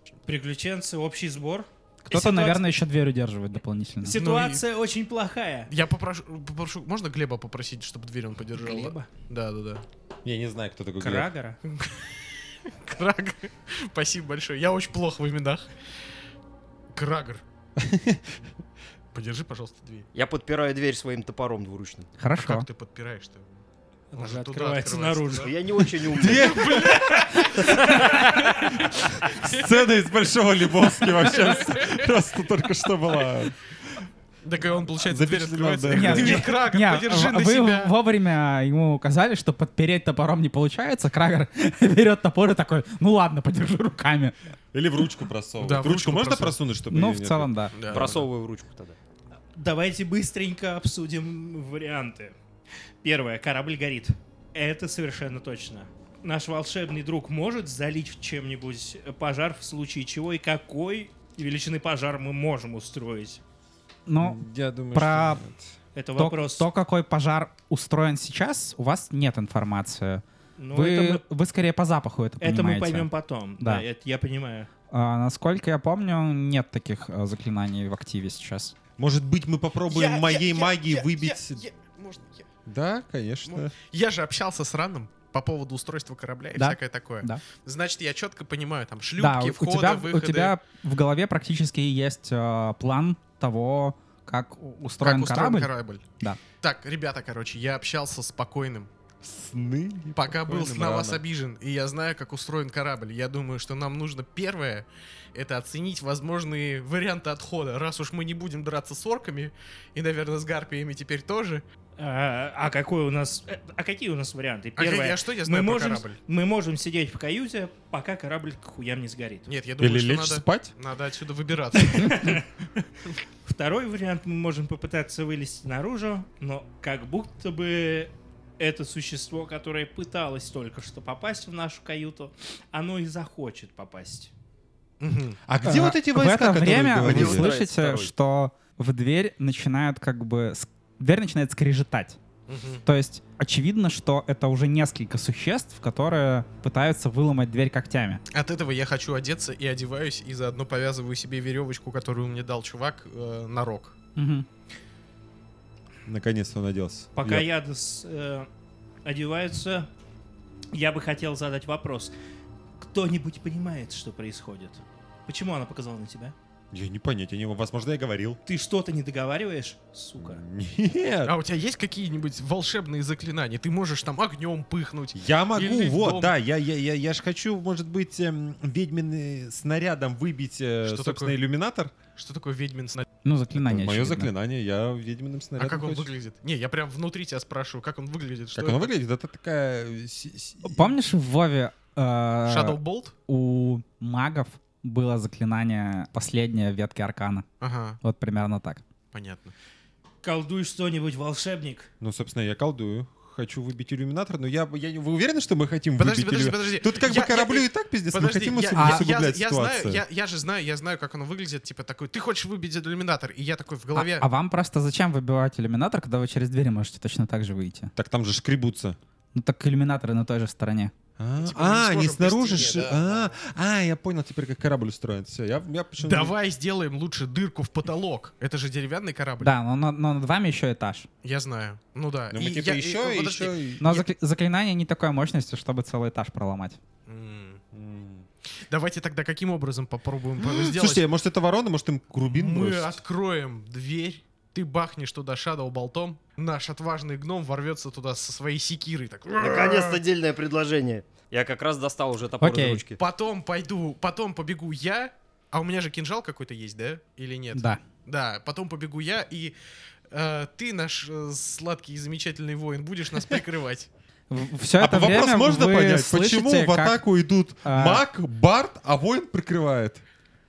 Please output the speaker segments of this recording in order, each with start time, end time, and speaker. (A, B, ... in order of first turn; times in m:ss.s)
0:00.3-0:02.7 A
0:02.1-0:04.2 B
0:04.0-0:05.7 A
0:04.2-0:04.6 C
0:05.7-0:09.8 C
0:08.6-0:09.1 A
0:10.2-0:11.3 D
0:11.0-0:11.6 A
0:11.7-0:15.7 C
0:16.9-0:17.4 C
0:17.8-0:18.2 D
0:19.1-0:20.1 C
0:20.1-0:22.1 E
0:22.2-0:22.7 B
0:22.4-0:23.6 C
0:24.1-0:25.6 A
0:24.2-0:25.5 C
0:25.4-0:26.6 E
0:26.1-0:34.1 D
0:26.2-0:29.7 C
0:26.9-0:28.0 A
0:31.1-0:32.1 C
0:34.4-0:37.9 C
0:34.8-0:36.5 D
0:35.9-0:44.4 B
0:44.7-0:48.2 D
0:45.6-0:46.6 C
0:46.9-0:47.8 B
0:47.8-0:48.2 C
0:47.9-0:49.0 E
0:49.5-0:52.4 A
0:53.0-1:03.4 A
1:04.1-1:05.4 B
1:04.2-1:05.8 D
1:06.0-1:06.7 A
1:06.2-1:13.8 B
1:10.6-1:11.2 A
1:12.4-1:14.7 A
1:14.9-1:18.8 B
1:19.0-1:21.6 D
1:19.9-1:22.5 C
1:22.7-1:23.7 D
1:23.5-1:30.6 C
1:26.6-1:27.4 B
1:29.2-1:36.4 B
1:35.0-1:36.0 C
1:36.6-1:38.9 C
1:39.2-1:41.2 D
1:40.2-1:51.6 C
1:52.0-1:59.5 A
1:54.8-1:56.2 C
1:59.5-2:02.4 C
1:59.8-2:00.7 D
2:01.8-2:02.5 A
2:03.4-2:14.3 A
2:15.0-2:15.4 C
2:15.5-2:17.6 D
2:15.6-2:22.2 B
2:17.0-2:18.1 E
2:22.5-2:22.8 C
2:22.8-2:28.2 B
2:28.3-2:34.0 C
2:34.2-2:34.5 B
2:36.1-2:37.5 D
2:37.2-2:38.5 A
2:39.0-2:39.9 A
2:40.7-2:42.1 A
2:42.8-2:46.4 A
2:46.7-2:48.4 D
2:48.5-2:50.4 A
2:50.2-2:51.4 D
2:51.2-2:56.4 C
2:55.1-3:01.9 D
3:00.8-3:01.4 C
3:02.2-3:03.0 C
3:03.2-3:04.3 B
3:03.6-3:06.1 D
3:05.6-3:08.9 C
3:08.6-3:10.9 D
3:10.6-3:17.5 B
3:12.5-3:13.2 C
3:17.6-3:18.0 C
3:18.0-3:18.8 B
3:19.1-3:19.5 C
3:20.2-3:21.9 A
3:22.0-3:30.0 D
3:26.0-3:34.3 C
3:28.8-3:29.1 B
3:34.0-3:37.9 B
3:38.0-3:39.0 D
3:39.3-3:40.9 B
3:41.2-3:46.4 D
3:41.4-3:43.4 C
3:46.0-3:49.5 C
3:49.4-3:51.1 B
3:51.2-3:54.1 C
3:52.3-3:53.8 D
3:53.8-3:56.8 B
3:57.1-3:57.6 C
3:57.7-3:58.3 D
3:58.7-4:01.1 C
4:00.4-4:03.0 D
4:02.2-4:10.0 C
4:09.4-4:13.0 E
4:12.4-4:12.8 B
4:13.0-4:19.6 C
4:17.5-4:17.8 B
4:20.1-4:23.9 C
4:24.3-4:27.0 B
4:24.8-4:30.0 D
4:27.6-4:28.1 B